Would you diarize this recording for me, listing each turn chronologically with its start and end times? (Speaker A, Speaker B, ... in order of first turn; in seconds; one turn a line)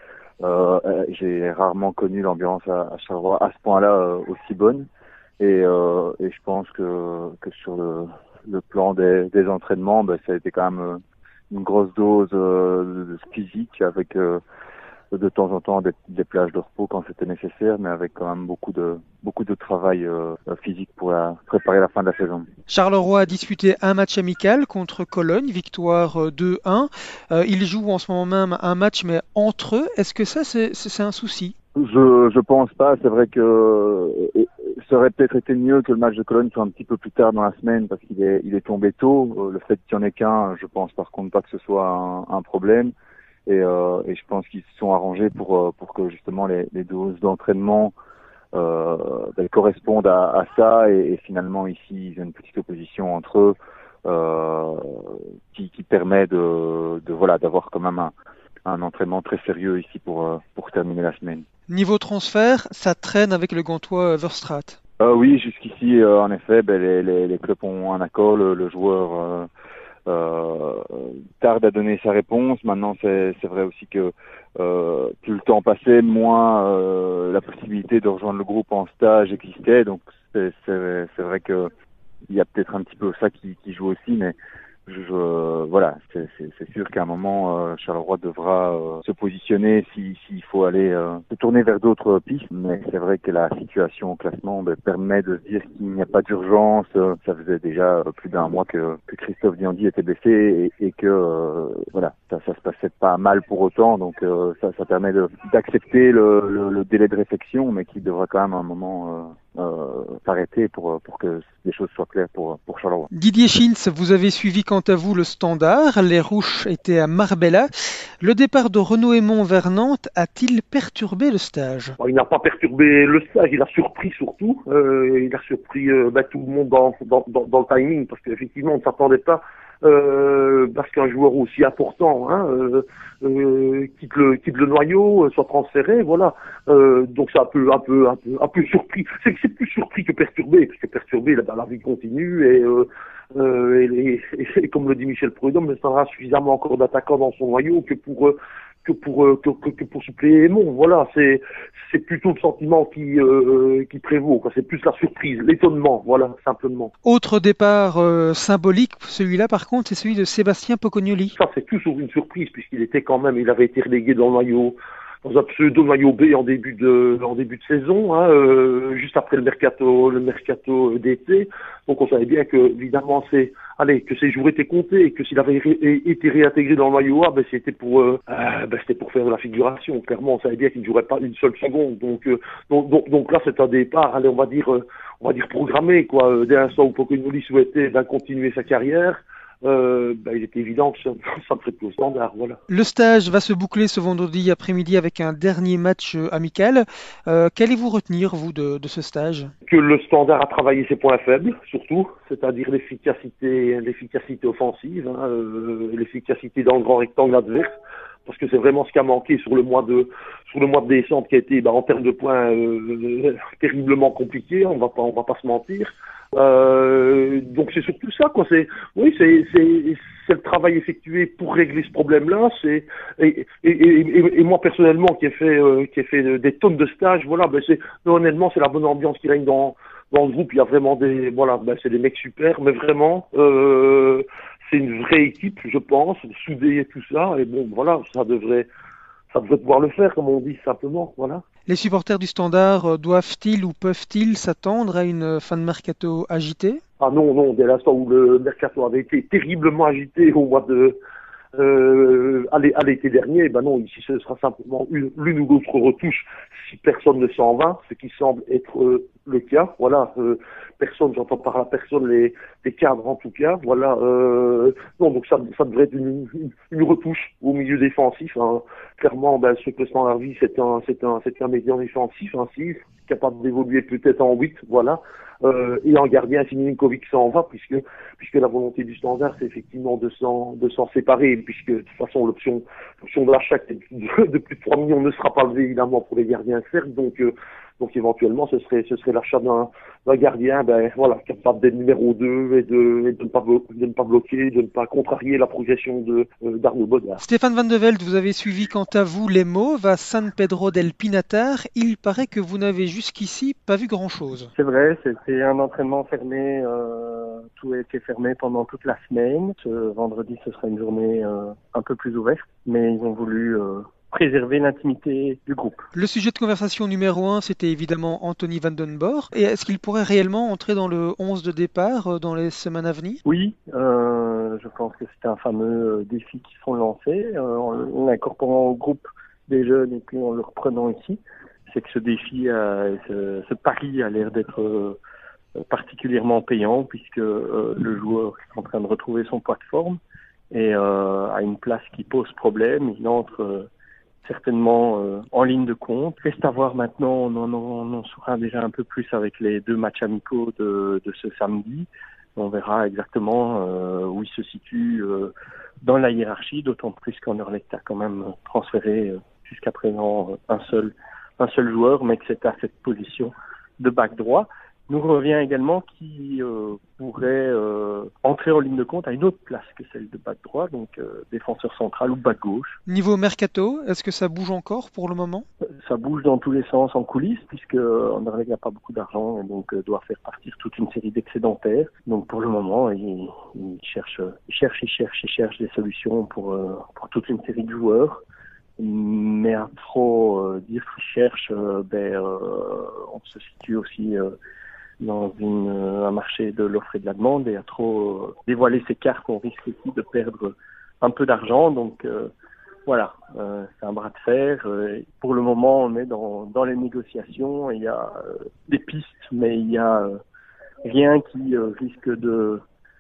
Speaker A: 0.4-4.9
Speaker A: 5.4-14.4
Speaker A: 15.1-22.5
Speaker B: 22.7-31.5
Speaker A: 31.8-42.9
Speaker A: 43.5-47.9
Speaker A: 48.5-58.1
Speaker A: 58.6-61.4
Speaker B: 61.7-64.8
Speaker A: 65.0-69.5
Speaker A: 70.0-81.7
Speaker A: 82.3-113.1
Speaker B: 113.1-117.7
Speaker B: 118.2-122.0
Speaker C: 122.0-156.9
Speaker B: 157.0-161.3
Speaker C: 161.3-192.6
Speaker B: 192.7-199.5
Speaker C: 199.7-207.7
Speaker C: 208.2-238.7
Speaker C: 239.3-241.4
Speaker B: 241.7-246.8
Speaker C: 247.0-251.0
Speaker C: 251.5-297.2
Speaker B: 297.2-304.5
Speaker D: 304.5-315.9
Speaker B: 315.9-323.2
Speaker D: 323.2-335.0
Speaker D: 335.7-340.0
Speaker D: 340.5-343.7
Speaker D: 344.2-372.8
Speaker B: 372.9-375.4
Speaker D: 375.8-388.2
Speaker D: 388.8-394.3
Speaker D: 395.0-402.3
Speaker D: 402.9-410.2
Speaker D: 410.8-412.6